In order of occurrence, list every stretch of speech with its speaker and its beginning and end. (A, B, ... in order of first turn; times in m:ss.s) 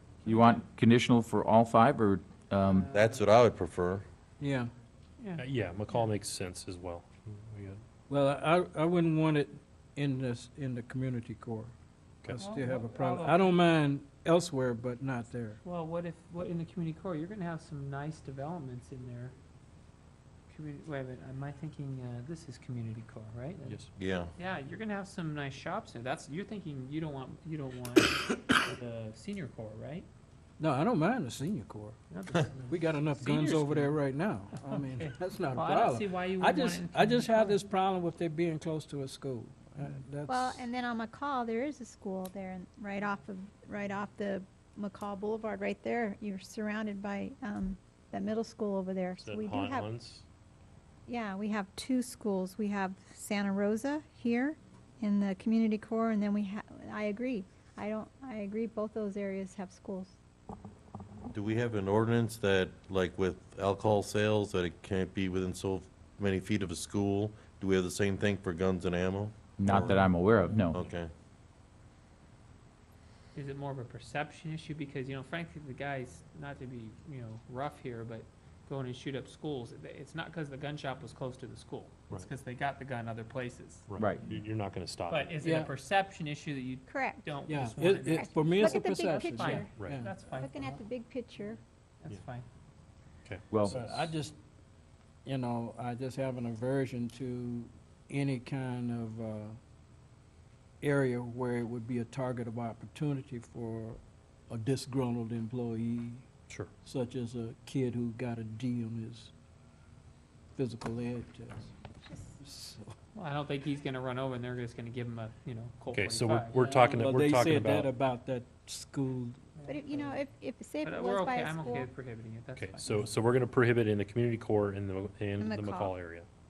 0:00.2-0:02.9 A
0:02.6-0:03.2 B
0:02.9-0:04.0 C
0:04.4-0:04.7 D
0:05.2-0:06.1 B
0:05.4-0:07.8 E
0:08.1-0:11.7 D
0:12.3-0:15.6 D
0:12.4-0:13.6 B
0:15.6-0:19.3 B
0:20.5-0:30.1 B
0:24.0-0:24.3 C
0:30.6-0:32.0 D
0:32.1-0:34.0 B
0:32.7-0:40.7 D
0:34.6-0:37.6 B
0:40.3-0:49.9 F
0:49.2-0:50.2 E
0:51.1-1:00.1 F
1:01.3-1:10.1 C
1:09.6-1:10.8 A
1:10.7-1:11.1 C
1:13.3-1:23.9 B
1:23.9-1:25.3 E
1:24.0-1:24.3 A
1:25.1-1:30.8 B
1:25.4-1:25.7 D
1:26.9-1:27.4 F
1:27.5-1:30.1 D
1:28.0-1:29.7 F
1:29.8-1:30.0 E
1:30.3-1:31.6 F
1:32.0-1:32.4 B
1:33.2-1:34.1 E
1:33.5-1:33.8 A
1:33.7-1:34.4 D
1:35.2-1:39.6 D
1:40.8-1:46.3 D
1:46.8-1:49.3 D
1:50.5-1:51.7 D
1:52.1-1:52.4 F
1:52.4-1:52.9 D
1:53.1-1:57.1 B
1:55.9-1:57.9 E
1:56.9-1:59.5 D
1:59.5-2:00.2 B
1:59.6-2:01.9 F
2:00.8-2:03.1 B
2:02.6-2:06.3 E
2:05.4-2:05.9 F